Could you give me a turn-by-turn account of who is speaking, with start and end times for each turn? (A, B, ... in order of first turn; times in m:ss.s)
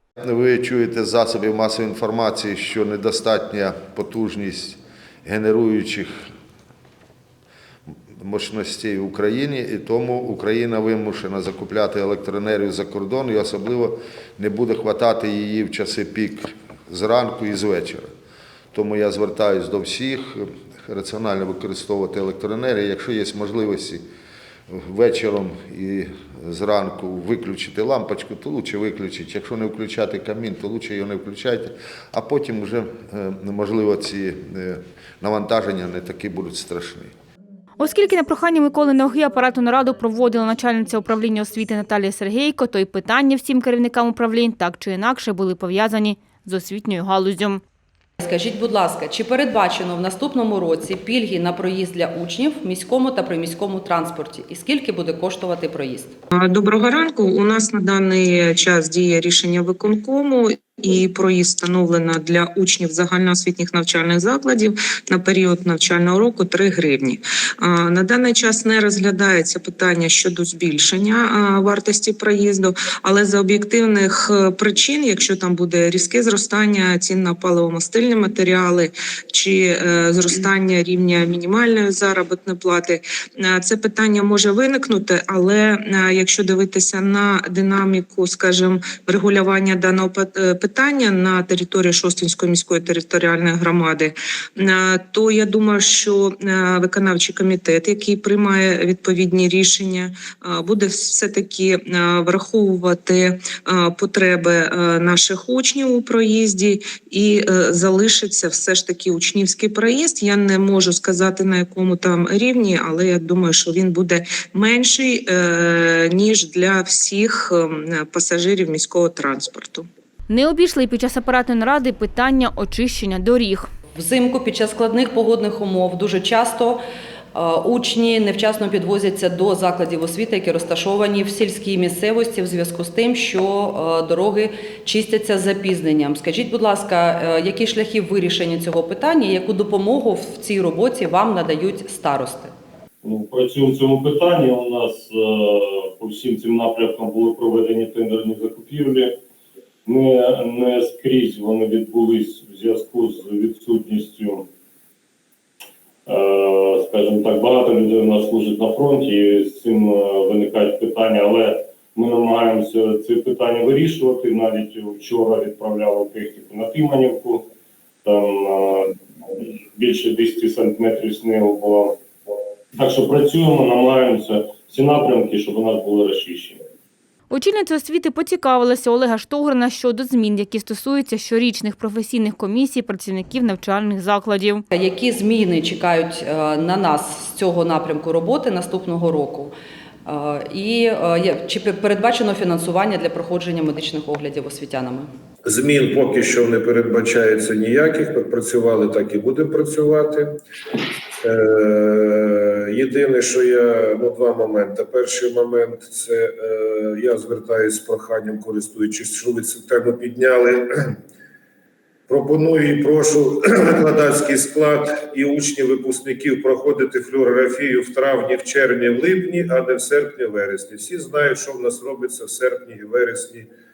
0:00.2-0:06.2 A
0:08.1-0:18.1 A
0:18.7-0:24.0 A
0:24.7-0:37.1 A
0:37.8-0:47.6 B
0:48.2-0:56.1 C
0:56.4-1:59.9 D
2:00.3-2:03.7 B
2:04.0-2:06.8 C
2:07.4-2:22.5 C
2:23.0-2:29.2 E
2:29.9-2:34.5 E
2:36.1-2:47.5 E
2:48.0-2:52.0 E
2:52.8-2:56.6 E
2:57.3-3:04.7 B
3:04.7-3:09.5 C
3:10.1-3:15.1 C
3:15.4-3:20.3 F
3:21.2-3:30.7 F
3:32.1-3:43.5 F